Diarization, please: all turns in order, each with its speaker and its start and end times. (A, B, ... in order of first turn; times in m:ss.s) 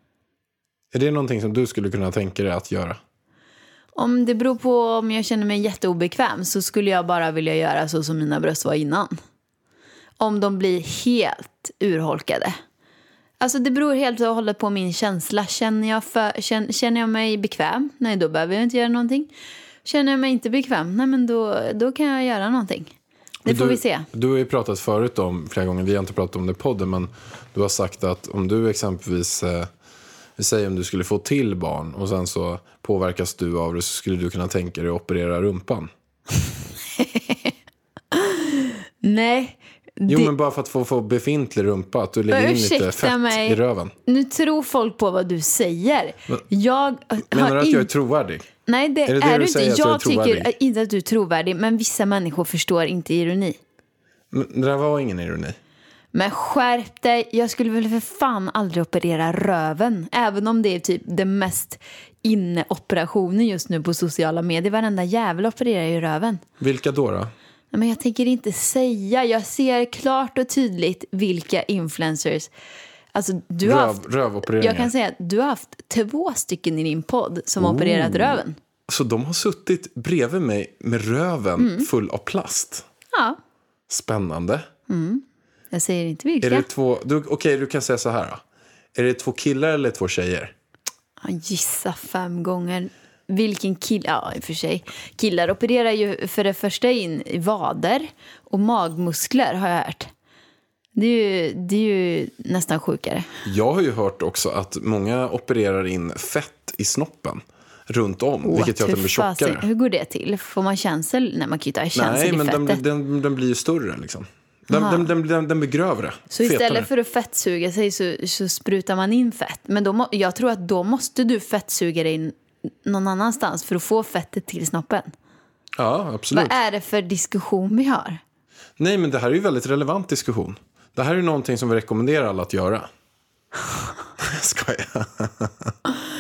0:00.9-0:03.0 A
0:04.0-0:09.2 B
0:10.2-0:12.6 B
0:13.4-0:19.3 B
0:19.8-0:22.9 B
0:23.4-0:24.1 B
0:23.5-0:29.7 A
0:30.4-0:35.9 A
0:37.0-0:37.5 B
0:38.1-0:40.3 B
0:40.1-0:44.0 A
0:42.3-0:47.9 B
0:47.3-0:48.5 A
0:48.7-0:53.6 B
0:49.1-0:50.5 A
0:54.3-0:55.6 A
0:56.1-1:06.4 B
1:06.6-1:07.3 A
1:07.7-1:12.5 B
1:13.1-1:18.6 B
1:13.6-1:14.9 A
1:17.6-1:22.8 A
1:21.6-1:21.9 B
1:23.1-1:23.4 B
1:23.9-1:24.7 A
1:24.9-1:26.6 B
1:26.4-1:28.4 A
1:29.0-1:30.5 A
1:31.2-1:40.1 B
1:41.0-1:43.3 B
1:43.4-1:49.7 A
1:48.4-1:52.8 B
1:51.9-1:56.9 A
1:54.7-1:55.1 B
1:56.3-2:05.1 B
2:05.8-2:06.6 A
2:06.3-2:08.2 B
2:08.8-2:12.9 A
2:14.2-2:15.7 A